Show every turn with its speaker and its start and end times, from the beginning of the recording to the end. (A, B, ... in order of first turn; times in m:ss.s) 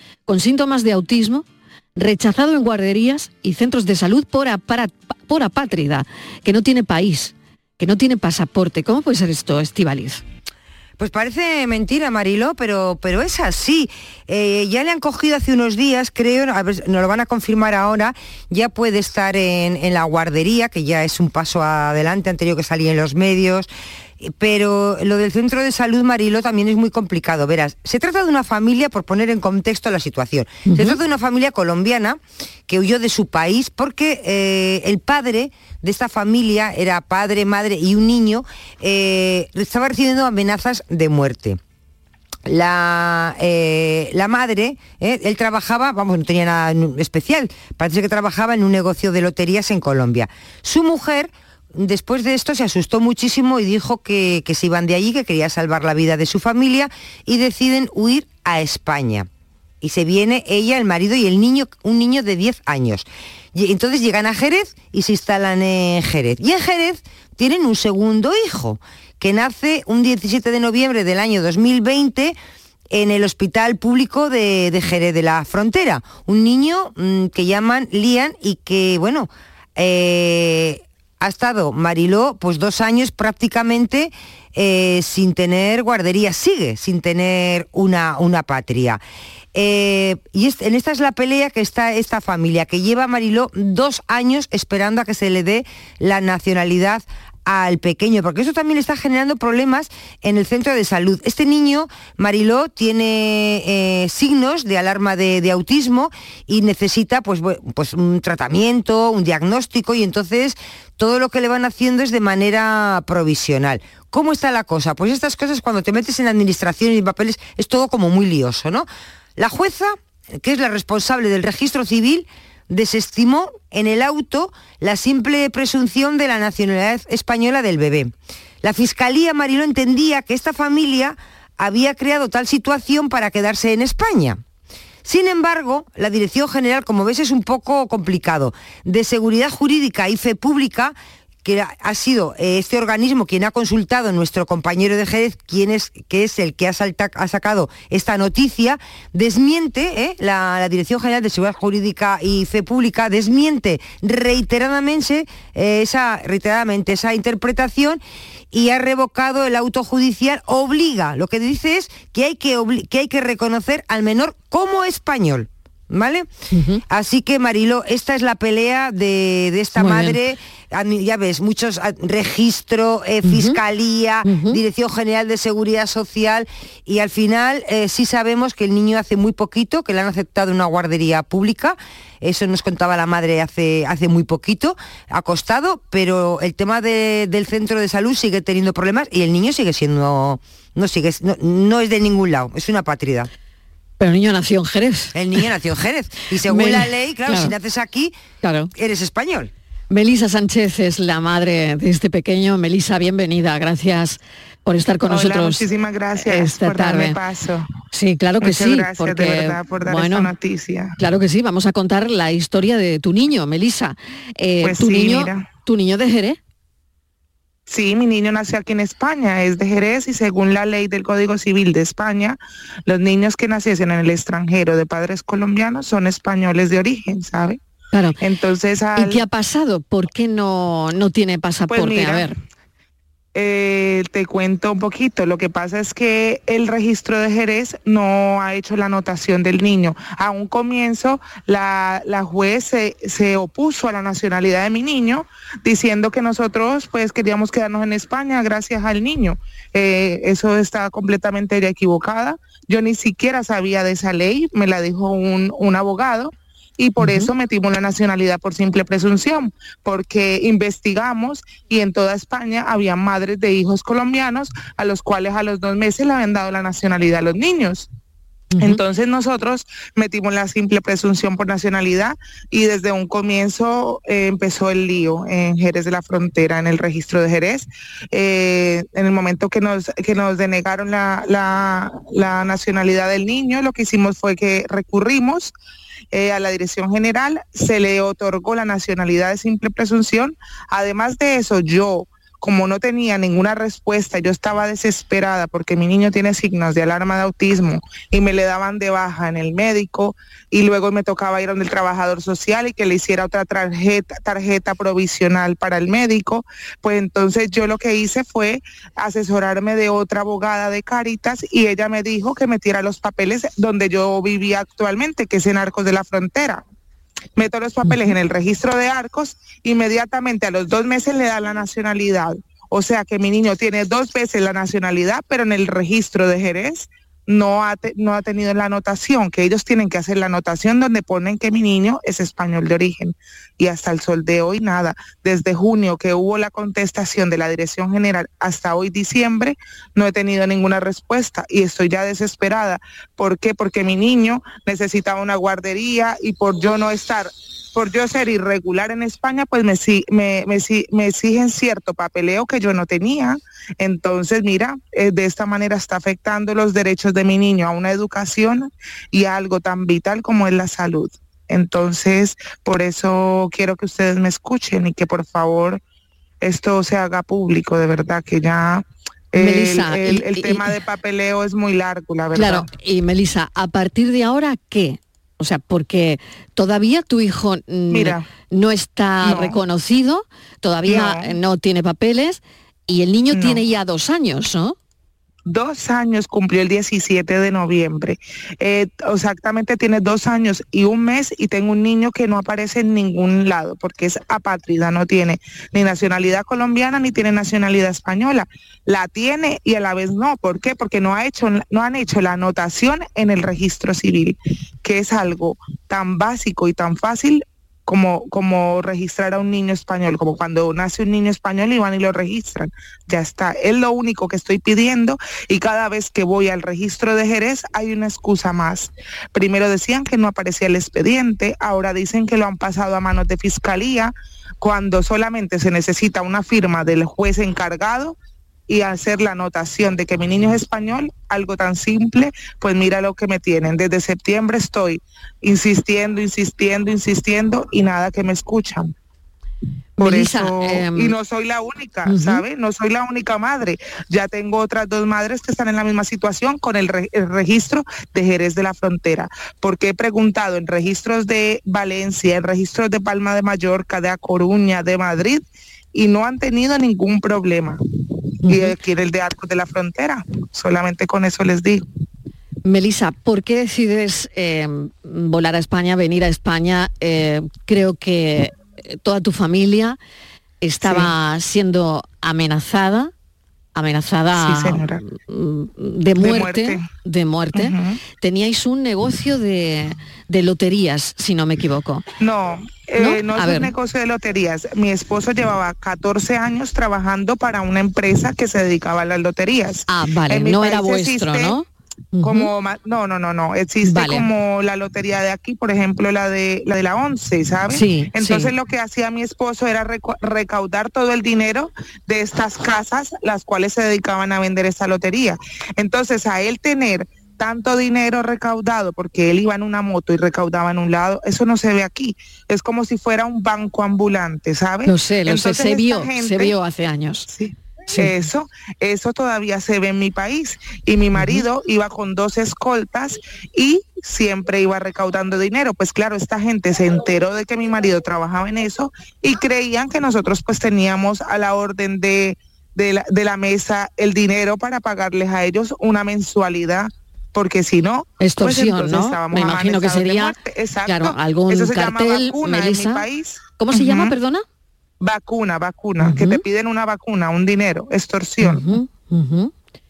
0:00.3-0:10.2 A
0:11.0-0:23.7 B
0:24.2-0:41.6 B
0:30.6-0:31.0 A
0:42.4-0:59.3 B
0:59.8-1:12.4 B
1:12.9-1:29.0 B
1:29.5-2:14.4 B
2:15.0-2:46.3 B
2:46.5-2:46.8 A
2:46.9-3:13.3 B
2:49.8-2:50.2 A
2:53.2-2:53.6 A
2:54.2-2:54.6 A
3:14.0-3:15.1 A
3:15.1-3:18.1 B
3:16.5-3:17.5 A
3:18.4-3:18.7 A
3:18.7-3:19.5 B
3:19.9-3:25.6 A
3:25.1-3:27.6 C
3:26.2-3:27.2 A
3:27.9-3:30.3 A
3:28.4-3:30.9 C
3:31.0-3:36.4 A
3:34.6-3:35.4 C
3:37.7-3:47.6 C
3:47.9-3:48.2 A
3:48.2-3:49.2 C
3:49.0-3:52.3 A
3:51.7-3:52.3 C
3:53.3-4:27.9 C
4:17.0-4:17.3 A
4:28.6-4:45.5 C
4:46.1-5:16.6 C
5:17.4-6:05.8 C
5:17.8-5:18.1 A
6:06.4-6:12.7 C
6:09.4-6:10.7 A
6:12.3-6:24.8 A
6:17.9-6:18.2 C
6:19.2-6:19.6 C
6:20.8-6:21.3 C
6:23.3-6:23.6 C
6:25.5-7:08.2 C
7:08.7-7:18.9 C
7:20.0-7:21.1 A
7:20.0-7:35.4 C
7:22.0-7:22.4 A
7:35.9-7:37.8 C
7:38.4-7:38.7 A
7:38.5-7:41.8 C
7:42.6-7:50.0 A
7:50.6-7:53.1 A
7:50.8-7:51.1 C
7:53.7-8:02.0 A
7:54.3-7:55.0 C
7:56.2-7:56.8 C
7:57.5-7:58.0 C
8:02.2-8:11.6 C
8:03.0-8:03.7 A
8:09.9-8:12.5 A
8:12.2-8:36.5 C
8:13.8-8:14.3 A
8:17.7-8:18.5 A
8:34.8-8:37.3 A
8:37.3-9:04.1 C
8:37.9-8:38.2 A
8:41.2-8:41.4 A
8:58.2-9:00.3 A
9:00.8-9:03.0 A
9:03.6-9:04.4 A
9:05.0-9:08.7 C
9:06.0-9:06.4 A
9:08.4-9:09.5 A